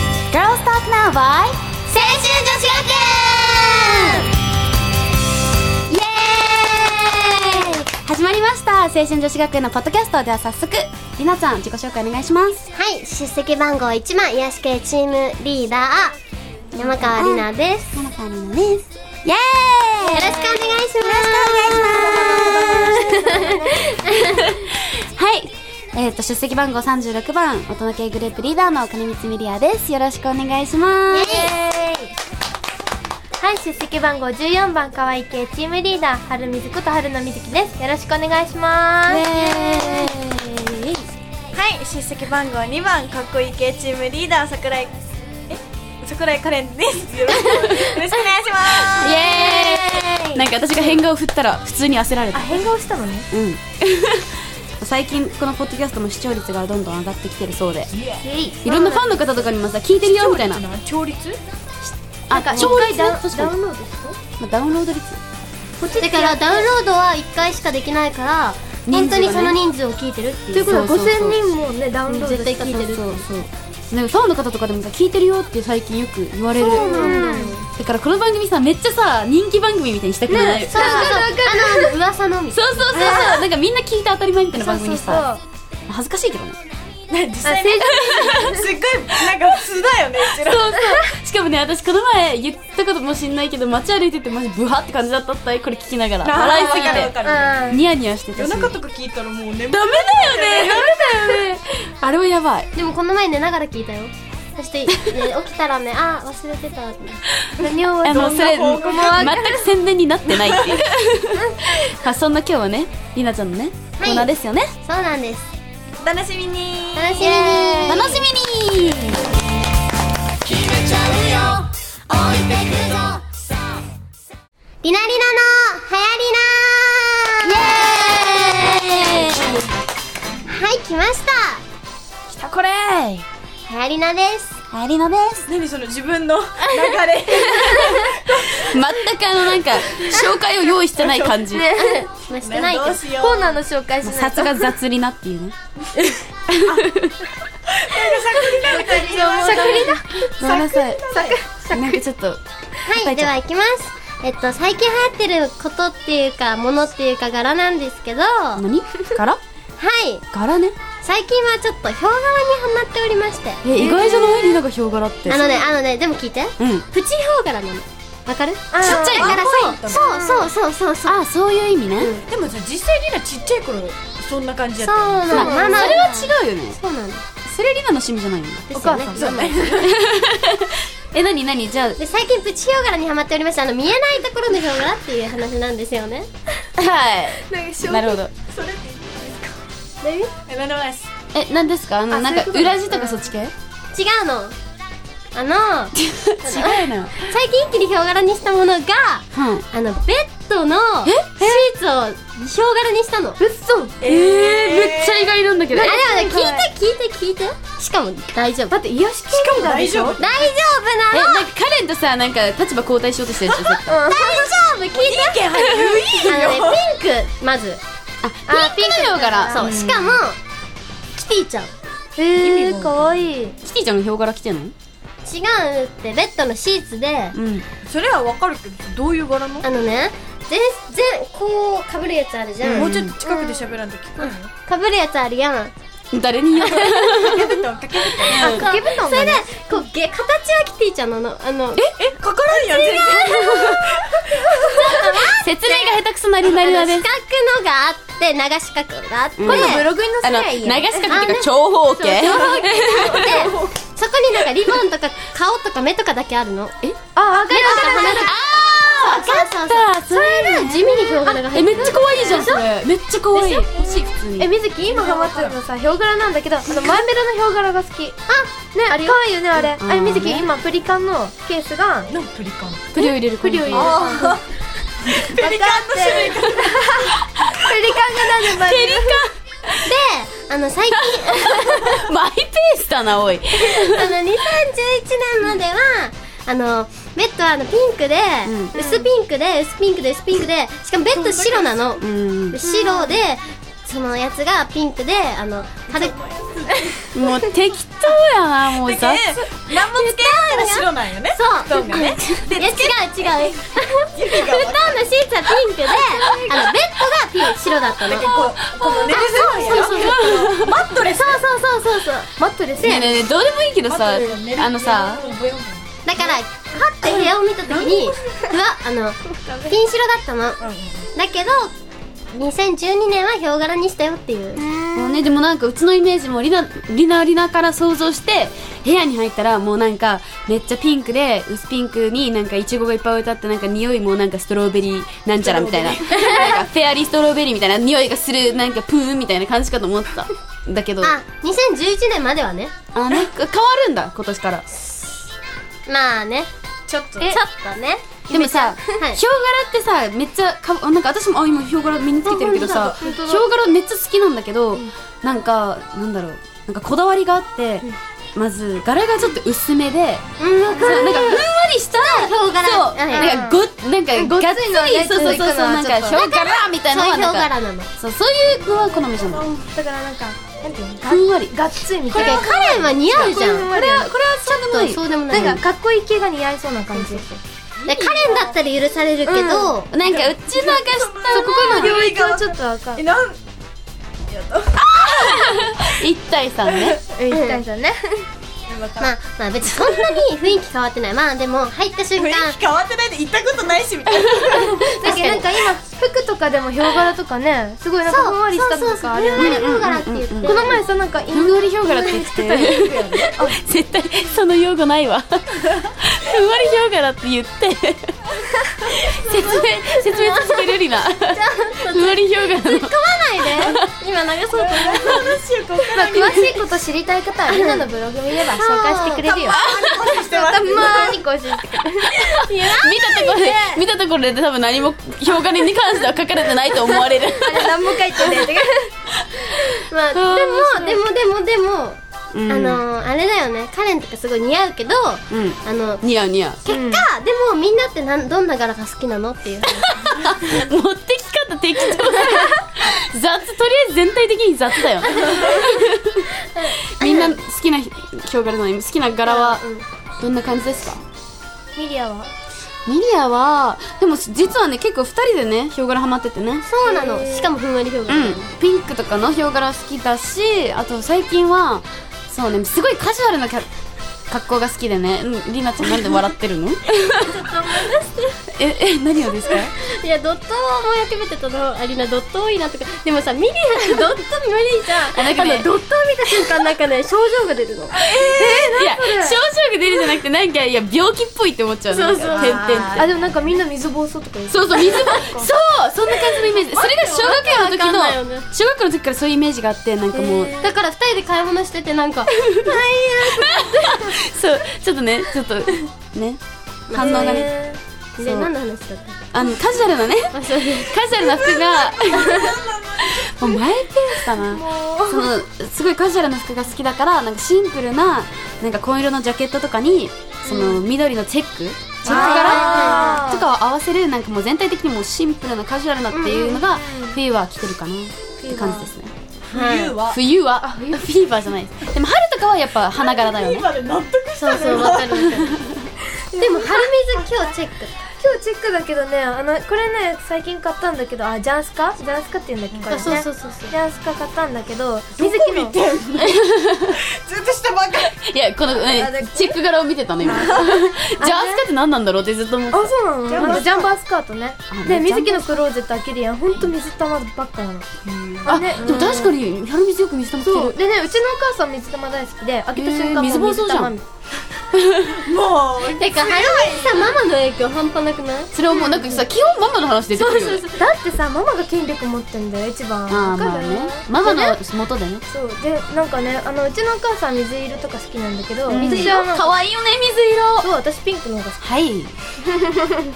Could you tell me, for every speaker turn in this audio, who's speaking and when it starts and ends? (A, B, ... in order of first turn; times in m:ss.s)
0:00.3-0:01.6 A
0:01.9-0:04.2 B
0:05.9-0:12.6 A
0:06.4-0:07.4 B
0:12.7-0:16.2 B
0:16.7-0:20.6 A
0:16.8-0:17.9 B
0:20.0-0:24.5 B
0:20.2-0:23.6 C
0:22.1-0:22.7 A
0:23.0-0:23.6 D
0:24.2-0:24.5 A
0:25.2-0:31.5 A
0:31.1-0:31.6 B
0:31.3-0:31.9 D
0:33.4-0:40.1 D
0:39.0-0:39.2 B
0:39.1-0:41.0 A
0:41.5-0:45.0 C
0:45.5-0:49.2 C
0:47.3-0:48.0 A
0:48.6-0:52.6 A
0:49.0-0:50.3 B
0:52.3-0:53.3 D
0:53.3-0:57.9 A
0:57.9-0:58.2 C
0:58.2-0:59.1 D
0:58.6-1:00.6 A
1:00.0-1:01.4 C
1:01.8-1:03.6 A
1:02.3-1:04.2 D
1:04.4-1:05.2 A
1:05.8-1:06.7 D
1:06.0-1:10.9 B
1:08.9-1:09.6 A
1:10.5-1:12.8 D
1:10.7-1:11.4 A
1:12.1-1:13.2 B
1:12.7-1:17.2 A
1:16.6-1:17.7 B
1:16.6-1:17.6 D
1:17.7-1:21.2 A
1:20.3-1:22.0 D
1:20.7-1:23.2 B
1:22.5-1:25.3 A
1:22.9-1:23.4 D
1:24.6-1:25.4 D
1:25.9-1:26.6 A
1:27.1-1:30.7 C
1:27.4-1:28.7 D
1:28.1-1:28.4 A
1:30.4-1:37.2 A
1:30.8-1:31.0 D
1:36.2-1:37.8 C
1:36.4-1:37.8 D
1:37.7-1:38.8 A
1:38.3-1:40.9 C
1:39.7-1:42.7 A
1:40.5-1:41.6 D
1:42.8-1:47.2 B
1:47.6-1:49.7 D
1:48.0-1:54.7 A
1:48.1-1:49.3 C
1:50.3-1:50.8 C
1:51.4-1:51.7 D
1:54.0-1:55.5 B
1:56.0-1:57.3 C
1:57.0-1:58.2 B
1:57.2-1:59.3 A
2:00.8-2:03.2 B
2:04.8-2:09.6 B
2:07.4-2:09.6 A
2:10.5-2:11.6 B
2:12.3-2:13.3 A
2:13.7-2:14.6 B
2:14.7-2:15.5 A
2:15.5-2:18.8 C
2:17.6-2:21.7 A
2:17.7-2:18.0 D
2:21.0-2:21.4 C
2:21.5-2:22.1 D
2:21.9-2:23.0 B
2:22.4-2:23.6 C
2:23.0-2:24.7 D
2:24.0-2:25.6 A
2:26.5-2:27.2 A
2:27.7-2:31.4 C
2:28.0-2:30.5 D
2:29.3-2:29.8 B
2:30.4-2:31.0 A
2:31.1-2:32.0 D
2:31.7-2:33.3 A
2:32.9-2:38.6 B
2:38.6-2:39.4 A
2:39.8-2:40.2 B
2:40.3-2:40.8 A
2:41.0-2:44.5 B
2:43.6-2:45.5 A
2:43.8-2:44.4 D
2:45.3-2:51.2 B
2:46.6-2:46.9 A
2:48.7-2:49.3 D
2:48.8-2:49.4 A
2:48.9-2:50.1 C
2:49.9-2:50.5 D
2:51.1-2:52.1 A
2:52.0-2:52.2 B
2:52.3-2:55.4 C
2:54.8-2:57.2 B
2:55.3-2:56.0 D
2:55.3-2:56.8 A
2:57.4-2:58.7 A
2:58.7-2:59.6 B
2:58.7-2:59.6 D
2:59.1-3:00.0 C
2:59.7-3:02.0 A
3:02.0-3:06.3 B
3:06.8-3:08.3 A
3:07.5-3:08.3 D
3:08.5-3:09.6 C
3:10.0-3:10.3 B
3:10.5-3:11.1 C
3:11.3-3:13.5 A
3:12.1-3:13.3 D
3:13.9-3:14.6 B
3:15.3-3:23.4 B
3:16.1-3:17.2 A
3:19.3-3:19.7 A
3:21.0-3:21.3 A
3:21.4-3:21.7 D
3:23.4-3:24.1 D
3:24.0-3:25.4 C
3:24.1-3:26.0 A
3:25.7-3:26.7 D
3:25.8-3:28.8 B
3:28.7-3:30.2 D
3:29.3-3:30.5 C
3:30.2-3:31.5 B
3:31.1-3:34.0 A
3:33.8-3:34.5 D
3:34.1-3:37.8 B
3:34.9-3:36.8 C
3:38.2-3:40.2 A
3:38.5-3:40.4 B
3:39.1-3:39.7 D
3:41.2-3:41.7 B
3:42.2-3:43.6 D
3:42.4-3:43.2 C
3:43.6-3:44.7 A
3:45.2-3:47.4 B
3:47.3-3:47.7 A
3:47.9-3:49.7 C
3:49.6-3:55.7 B
3:52.6-3:54.5 C
3:52.6-3:53.2 A
3:56.1-3:57.6 A
3:56.6-3:57.1 B
3:56.7-3:58.8 C
3:58.2-3:58.7 A
3:58.3-4:01.8 B
3:58.4-3:59.5 D
4:02.0-4:04.6 C
4:02.5-4:03.9 B
4:04.6-4:09.9 B
4:05.2-4:07.1 A
4:09.4-4:13.6 A
4:09.5-4:11.2 D
4:11.1-4:16.8 B
4:12.3-4:13.7 C
4:17.2-4:18.3 D
4:17.4-4:22.6 B
4:17.6-4:24.5 A
4:22.0-4:22.6 D
4:23.3-4:23.7 D
4:24.4-4:28.2 D
4:24.8-4:25.6 C
4:28.3-4:29.2 B
4:28.7-4:32.1 D
4:29.6-4:30.5 A
4:32.1-4:32.9 C
4:32.9-4:34.2 A
4:33.0-4:34.4 D
4:33.7-4:34.4 C
4:35.0-4:37.0 C
4:35.3-4:39.2 D
4:38.4-4:39.9 A
4:39.8-4:42.1 B
4:41.2-4:44.2 A
4:43.6-4:56.2 B
4:48.4-4:48.7 A
4:48.7-4:49.1 D
4:51.1-4:51.8 C
4:52.0-4:52.6 A
4:52.6-4:53.2 D
4:55.9-4:57.0 C
4:57.1-4:59.4 A
4:58.8-5:03.5 C
4:59.7-5:08.4 B
5:04.1-5:05.0 C
5:06.2-5:06.6 D
5:08.0-5:11.4 C
5:09.1-5:10.4 B
5:09.7-5:10.7 A
5:11.0-5:13.2 B
5:12.4-5:13.2 D
5:12.8-5:15.3 A
5:13.9-5:16.4 C
5:16.1-5:20.6 B
5:17.0-5:18.2 C
5:19.3-5:19.8 D
5:20.6-5:21.1 C
5:21.2-5:21.8 B
5:22.3-5:24.6 B
5:24.6-5:25.2 D
5:25.0-5:41.2 A
5:35.4-5:36.5 C
5:36.1-5:36.6 B
5:41.0-5:42.7 B
5:42.9-5:44.7 A
5:45.9-5:46.5 B
5:46.9-5:47.3 C
5:47.3-5:49.2 B
5:48.3-6:09.5 A
5:48.3-5:48.8 D
5:52.2-5:53.1 B
5:52.5-5:53.5 D
6:00.4-6:03.4 B
6:00.7-6:01.1 D
6:03.1-6:03.6 D
6:04.1-6:06.2 D
6:06.1-6:07.9 B
6:09.3-6:14.1 D
6:11.1-6:11.6 A
6:12.1-6:13.7 B
6:12.1-6:15.6 A
6:14.5-6:15.6 B
6:15.3-6:17.4 D
6:16.9-6:17.2 B
6:17.8-6:18.6 C
6:17.9-6:19.9 B
6:19.2-6:19.8 D
6:19.9-6:22.0 A
6:20.0-6:23.4 C
6:21.3-6:23.0 D
6:24.3-6:25.8 C
6:25.0-6:27.0 A
6:27.0-6:28.3 D
6:27.3-6:27.6 B
6:28.7-6:29.2 C
6:29.0-6:32.6 B
6:29.7-6:30.2 C
6:32.2-6:35.4 C
6:34.5-6:35.5 B
6:34.9-6:39.6 D
6:38.1-6:40.8 B
6:39.4-6:40.7 A
6:40.4-6:42.8 D
6:41.3-6:48.2 A
6:42.6-6:43.3 C
6:48.8-6:53.8 A
6:50.1-6:55.4 B
6:53.1-6:53.8 D
6:54.5-6:56.6 C
6:55.9-6:59.7 D
6:56.0-6:56.5 B
6:57.5-6:57.9 B
6:58.5-6:59.3 B
6:59.2-7:01.2 C
6:59.5-7:00.2 A
7:00.3-7:02.5 D
7:02.0-7:08.5 A
7:02.4-7:03.9 B
7:06.8-7:09.0 D
7:09.9-7:16.0 B
7:10.2-7:10.5 A
7:10.3-7:11.0 D
7:12.3-7:12.8 A
7:15.3-7:16.6 A
7:16.6-7:20.5 B
7:16.7-7:17.1 D
7:19.9-7:26.3 A
7:25.1-7:25.9 B
7:26.5-7:27.4 B
7:26.9-7:29.6 A
7:29.3-7:29.8 B
7:30.2-7:31.0 A
7:31.8-7:32.3 D
7:32.9-7:36.7 A
7:36.7-7:38.5 B
7:36.8-7:37.6 D
7:38.1-7:43.7 A
7:44.3-7:47.5 A
7:47.2-7:48.4 B
7:48.5-7:49.7 A
7:49.5-7:58.0 B
7:55.1-7:55.7 A
7:57.9-7:58.8 C
7:58.2-7:59.4 D
7:58.3-8:03.0 A
8:01.9-8:02.6 B
8:02.2-8:03.6 C
8:03.0-8:05.5 D
8:04.5-8:10.6 A
8:06.2-8:07.4 C
8:07.1-8:08.5 B
8:10.1-8:10.8 D
8:10.6-8:12.4 B
8:12.4-8:16.4 A
8:12.6-8:14.2 D
8:16.9-8:17.5 B
8:16.9-8:17.5 A
8:17.0-8:17.8 D
8:18.2-8:19.2 B
8:18.2-8:18.5 A
8:19.3-8:39.1 A
8:20.3-8:21.0 B
8:21.1-8:23.4 C
8:22.1-8:22.5 B
8:24.1-8:25.3 D
8:30.4-8:30.9 D
8:32.0-8:33.0 C
8:32.1-8:33.5 D
8:32.1-8:33.4 B
8:36.1-8:36.6 B
8:36.5-8:37.2 D
8:38.4-8:38.9 D
8:39.5-8:40.2 C
8:39.5-8:40.0 B
8:40.1-8:43.7 A
8:40.6-8:41.0 D
8:43.0-8:45.5 C
8:44.4-8:45.6 B
8:46.3-8:47.5 D
8:46.4-8:48.0 B
8:48.1-8:55.8 D
8:52.7-8:53.1 C
8:52.9-8:53.7 B
8:55.2-8:58.2 C
8:56.3-8:57.0 A
8:58.1-9:03.6 A
8:58.9-8:59.3 D
9:00.2-9:00.9 C
9:00.2-9:01.6 D
9:02.7-9:07.9 D
9:03.3-9:03.9 C
9:04.7-9:05.4 A
9:08.1-9:10.8 A
9:08.4-9:09.3 D
9:10.4-9:14.0 D
9:12.7-9:13.9 A
9:14.8-9:15.2 A
9:15.2-9:17.2 C
9:16.0-9:18.5 B
9:18.5-9:20.7 A
9:18.7-9:19.2 D
9:20.2-9:24.6 D
9:23.1-9:25.2 A
9:25.3-9:29.5 D
9:28.7-9:30.7 A
9:30.6-9:31.6 D
9:31.6-9:32.1 A
9:32.5-9:32.9 D